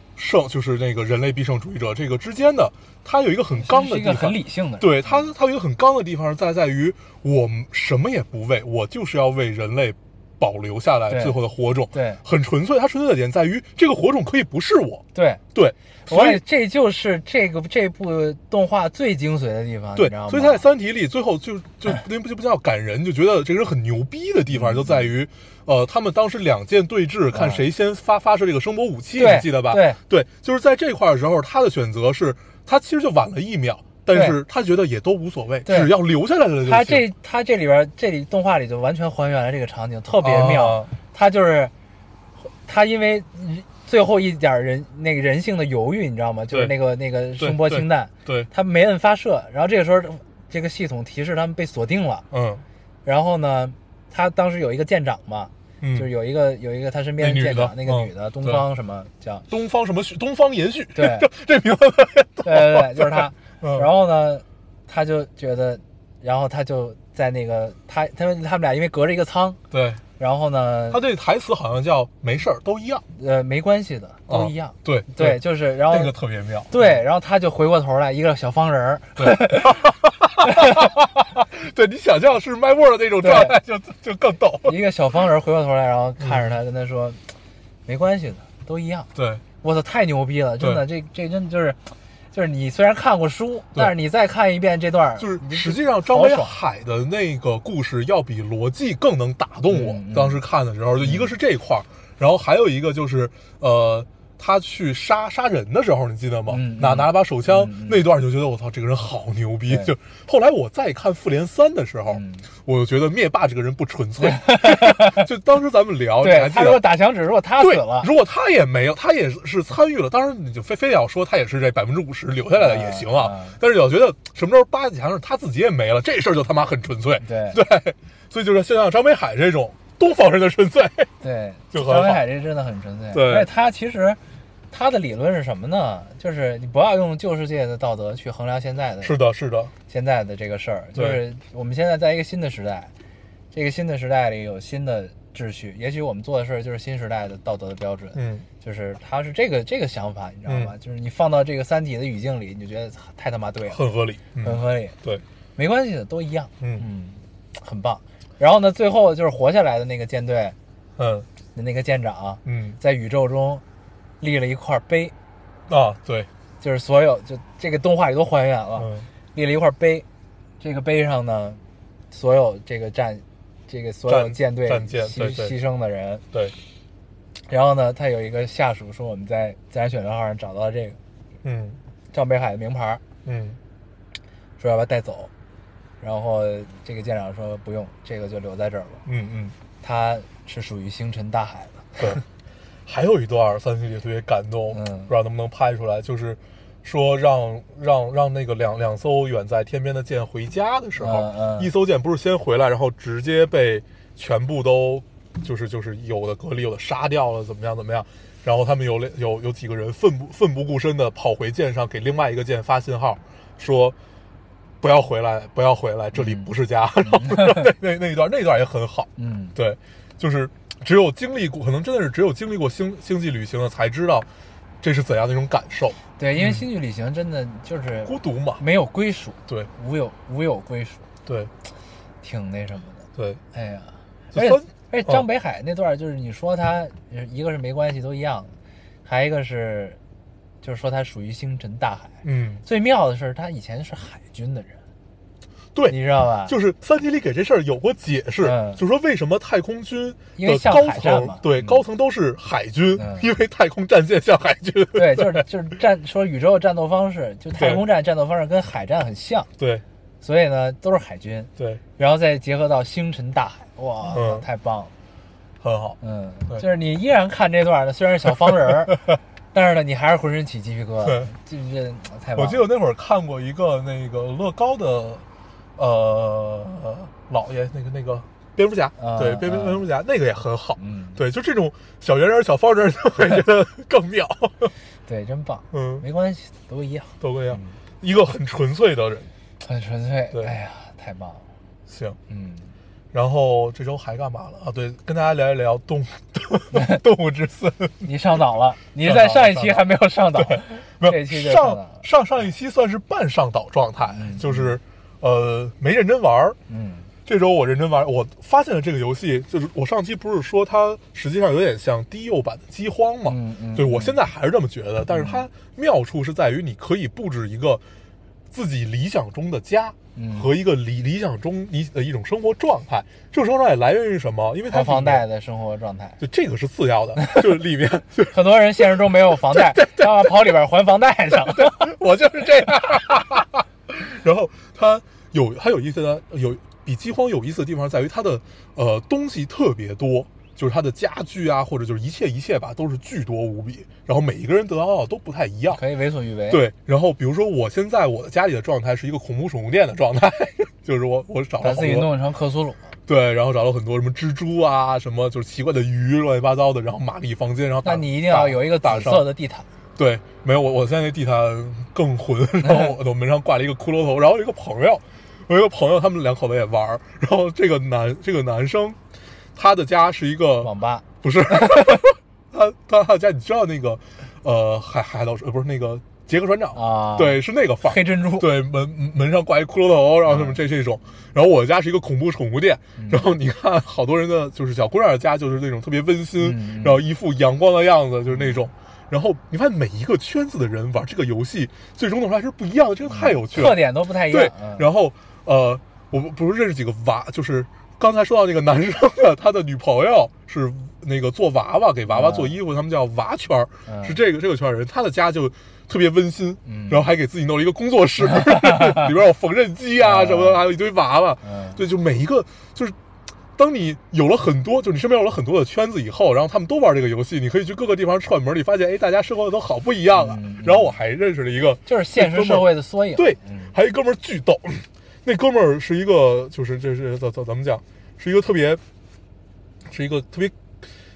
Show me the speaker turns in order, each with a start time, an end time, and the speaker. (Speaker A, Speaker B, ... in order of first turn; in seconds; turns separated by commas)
Speaker A: 0.1-15.0, Speaker B: 3.5-5.3, Speaker B: 11.1-11.4, Speaker B: 11.9-12.2, Speaker B: 15.1-15.4, Speaker A: 15.5-16.4, Speaker B: 16.1-20.6, Speaker A: 19.9-37.0, Speaker B: 24.5-25.1, Speaker B: 27.3-27.6, Speaker B: 29.2-30.0, Speaker B: 34.1-34.4, Speaker B: 35.6-35.9, Speaker B: 36.6-41.7, Speaker A: 40.2-40.9, Speaker B: 42.6-52.2, Speaker A: 47.4-48.5, Speaker A: 52.3-52.6, Speaker B: 53.0-59.5, Speaker A: 55.8-56.1, Speaker A: 57.2-58.6, Speaker A: 59.5-63.9, Speaker B: 60.9-61.3, Speaker B: 62.4-69.6, Speaker A: 69.7-70.0, Speaker B: 70.2-71.0, Speaker A: 70.9-73.0, Speaker B: 73.1-76.1, Speaker A: 74.3-77.0, Speaker B: 76.7-80.9, Speaker A: 79.2-84.8, Speaker B: 83.2-83.5, Speaker B: 84.6-87.2, Speaker A: 86.2-86.5, Speaker B: 87.8-89.1, Speaker A: 89.1-89.4, Speaker B: 89.6-96.5, Speaker A: 95.2-116.9, Speaker B: 99.7-100.4, Speaker B: 101.0-101.3, Speaker B: 106.5-108.0, Speaker B: 109.7-109.9, Speaker B: 112.1-112.5, Speaker B: 114.2-115.3, Speaker B: 116.2-118.1, Speaker A: 117.6-131.1, Speaker B: 122.5-123.6, Speaker B: 127.2-127.6, Speaker B: 131.2-134.2, Speaker A: 131.7-132.2, Speaker A: 133.1-133.5, Speaker B: 134.7-139.2, Speaker A: 139.0-139.7, Speaker B: 139.9-142.9, Speaker A: 140.9-141.2, Speaker B: 143.5-153.8, Speaker A: 148.1-148.5, Speaker A: 150.5-150.7, Speaker A: 153.7-155.2, Speaker B: 154.4-154.9, Speaker B: 155.6-160.6, Speaker A: 161.0-161.3, Speaker B: 161.5-163.6, Speaker A: 162.4-162.8, Speaker B: 164.2-165.1, Speaker A: 165.7-166.3, Speaker B: 166.6-170.0, Speaker A: 168.8-169.1, Speaker B: 170.6-176.2, Speaker A: 174.1-175.5, Speaker B: 177.5-181.0, Speaker A: 181.4-181.8, Speaker B: 182.1-183.0, Speaker A: 183.2-183.6, Speaker B: 184.6-185.3, Speaker B: 186.0-189.0, Speaker A: 189.1-189.5, Speaker B: 189.8-192.2, Speaker A: 192.8-213.9, Speaker B: 194.7-195.1, Speaker B: 201.0-201.7, Speaker A: 214.8-224.3, Speaker B: 216.1-216.5, Speaker B: 217.0-217.7, Speaker B: 219.2-219.6, Speaker A: 224.8-226.6, Speaker B: 226.2-231.0, Speaker A: 228.0-228.6, Speaker A: 231.2-231.5, Speaker B: 232.2-238.5, Speaker A: 233.2-233.4, Speaker A: 234.3-235.2, Speaker B: 239.0-240.0, Speaker B: 240.6-244.8, Speaker A: 242.2-242.6, Speaker A: 245.7-255.4, Speaker B: 245.9-246.6, Speaker B: 248.4-248.8, Speaker B: 250.4-251.8, Speaker B: 252.9-253.3, Speaker B: 254.9-259.5, Speaker A: 257.6-257.8, Speaker A: 259.6-259.8, Speaker B: 260.2-264.9, Speaker A: 261.6-261.8, Speaker A: 264.1-264.4, Speaker A: 265.6-266.0, Speaker B: 266.0-272.6, Speaker A: 272.4-275.2, Speaker A: 275.8-284.7, Speaker B: 279.0-279.9, Speaker B: 280.8-281.2, Speaker B: 285.1-287.8, Speaker A: 285.7-286.0, Speaker A: 287.2-289.3, Speaker B: 289.6-291.4, Speaker A: 291.9-292.2, Speaker B: 292.3-292.7, Speaker A: 293.1-298.1, Speaker B: 296.7-297.0, Speaker B: 298.0-302.0, Speaker A: 299.0-299.8, Speaker A: 300.4-306.6, Speaker B: 304.1-304.8, Speaker B: 306.7-307.1, Speaker A: 307.2-317.8, Speaker B: 313.2-314.2, Speaker B: 315.1-315.4, Speaker A: 318.5-325.2, Speaker B: 320.1-320.5, Speaker B: 324.7-326.2, Speaker A: 326.2-328.9, Speaker B: 327.2-327.5, Speaker B: 328.3-331.9, Speaker A: 329.5-330.5, Speaker A: 331.3-345.8, Speaker B: 345.7-346.6, Speaker A: 346.5-352.1, Speaker B: 351.6-352.9, Speaker A: 353.1-359.2, Speaker B: 357.8-359.7, Speaker A: 360.0-369.0, Speaker B: 362.6-362.9, Speaker A: 369.5-370.7, Speaker B: 370.6-372.0, Speaker A: 371.2-412.9, Speaker B: 376.7-378.5, Speaker B: 380.3-380.6, Speaker B: 383.0-383.3, Speaker B: 386.4-387.0, Speaker B: 393.1-394.9, Speaker B: 402.1-402.6, Speaker B: 403.9-404.2, Speaker B: 406.6-407.1, Speaker B: 408.4-409.1, Speaker B: 410.0-410.6, Speaker B: 411.4-411.8, Speaker A: 413.6-428.8, Speaker B: 420.1-420.9, Speaker B: 421.9-423.7, Speaker A: 429.9-430.5